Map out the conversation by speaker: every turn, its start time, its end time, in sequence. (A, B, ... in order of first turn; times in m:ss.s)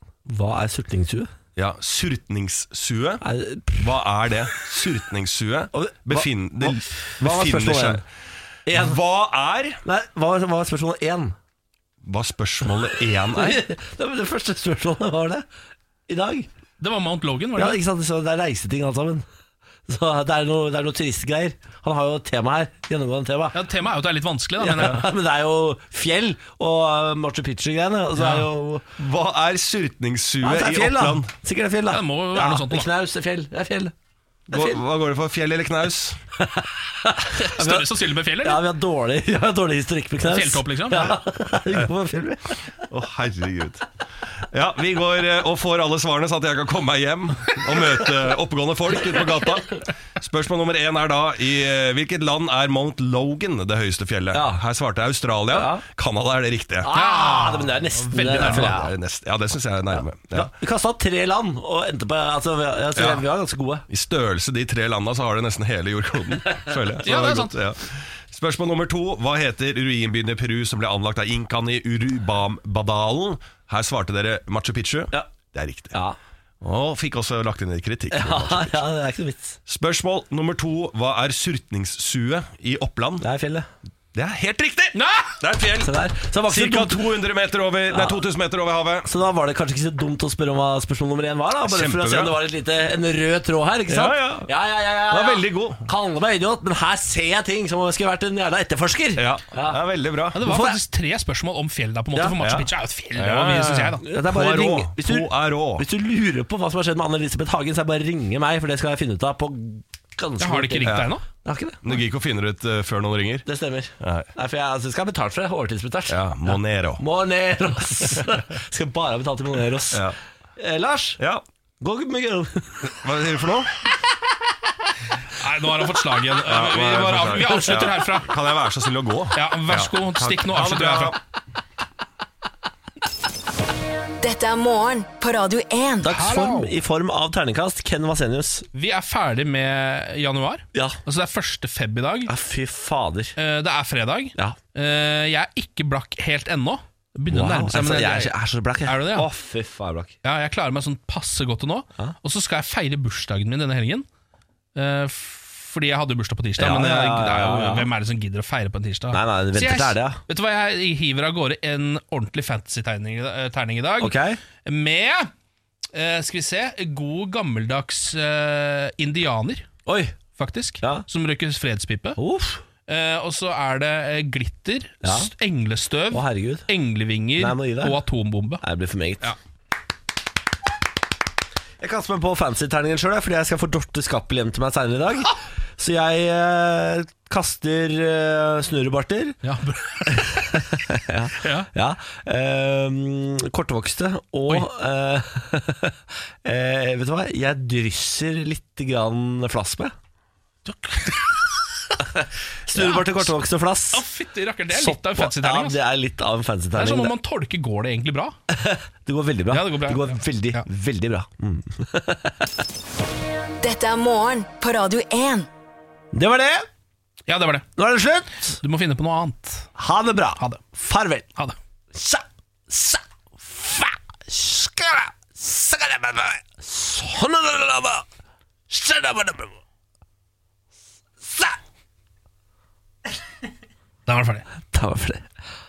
0:00.3-0:01.3 A
0:01.6-0:03.2 B
0:03.2-0:03.9 A
0:03.8-0:08.0 B
0:05.7-0:08.0 A
0:08.7-0:09.0 A
0:08.7-0:09.8 B
0:09.8-0:11.3 A
0:12.0-0:13.6 B
0:13.3-0:15.4 A
0:16.1-0:16.5 A
0:16.8-0:17.8 C
0:17.6-0:19.2 A
0:19.9-0:23.6 A
0:23.5-0:25.1 C
0:24.6-0:28.9 A
0:28.2-0:28.5 C
0:29.0-0:31.3 B
0:30.4-0:33.9 A
0:31.9-0:32.9 C
0:34.5-0:36.2 B
0:34.5-0:34.8 A
0:36.4-0:42.6 A
0:37.3-0:38.6 C
0:40.2-0:41.2 C
0:42.8-0:43.9 B
0:44.5-0:56.9 B
0:54.3-0:54.6 A
0:55.5-0:55.8 A
0:56.8-0:58.9 A
0:56.9-0:58.8 C
0:58.3-1:00.5 B
1:00.0-1:03.8 A
1:03.0-1:03.2 B
1:03.9-1:15.9 B
1:07.0-1:07.5 C
1:15.9-1:16.2 A
1:16.6-1:18.8 B
1:18.1-1:19.6 A
1:19.6-1:23.2 B
1:23.2-1:23.7 A
1:24.1-1:25.9 B
1:24.9-1:25.4 C
1:25.8-1:27.1 A
1:26.4-1:29.1 B
1:27.9-1:28.2 A
1:29.0-1:39.8 A
1:31.6-1:32.4 B
1:33.9-1:34.5 B
1:35.1-1:35.8 B
1:39.2-1:40.4 B
1:40.3-1:44.0 C
1:40.4-1:40.8 A
1:42.4-1:45.8 B
1:44.0-1:51.8 A
1:50.4-1:51.2 C
1:50.8-1:51.1 B
1:51.8-1:53.4 B
1:53.4-2:00.1 A
1:54.0-1:54.3 B
1:56.1-1:57.0 B
1:59.9-2:00.2 B
2:00.6-2:01.2 A
2:01.8-2:03.0 A
2:02.8-2:03.8 B
2:05.3-2:08.3 C
2:06.4-2:11.2 B
2:09.3-2:11.2 C
2:14.2-2:16.1 D
2:16.0-2:18.6 A
2:16.0-2:16.7 C
2:18.7-2:22.3 C
2:20.7-2:21.0 A
2:22.3-2:23.3 A
2:23.4-2:28.3 C
2:27.3-2:30.1 A
2:28.8-2:29.3 C
2:30.2-2:34.0 C
2:34.7-2:45.3 C
2:36.6-2:37.9 A
2:39.1-2:40.2 A
2:44.0-2:44.4 A
2:45.9-2:49.7 C
2:49.9-2:50.1 A
2:50.3-2:52.2 C
2:50.8-2:51.0 A
2:52.2-2:52.6 A
2:52.9-2:58.6 C
2:55.0-2:55.3 A
2:56.1-2:56.7 A
2:57.4-2:58.0 A
2:58.6-2:59.3 A
3:01.8-3:09.4 A
3:09.4-3:10.6 C
3:10.1-3:19.9 A
3:11.4-3:11.7 C
3:20.6-3:22.0 C
3:22.0-3:24.0 A
3:22.7-3:23.3 C
3:23.9-3:25.8 C
3:24.7-3:27.1 A
3:26.8-3:28.4 C
3:28.5-3:32.5 A
3:29.5-3:30.6 C
3:33.6-3:35.5 D
3:36.1-3:36.7 A
3:37.3-3:37.6 C
3:37.8-3:38.6 A
3:38.6-3:39.7 C
3:39.8-3:41.3 A
3:41.9-3:48.0 A
3:48.7-3:49.6 A
3:51.2-3:51.6 A
3:54.0-3:54.4 C
3:54.7-3:55.2 A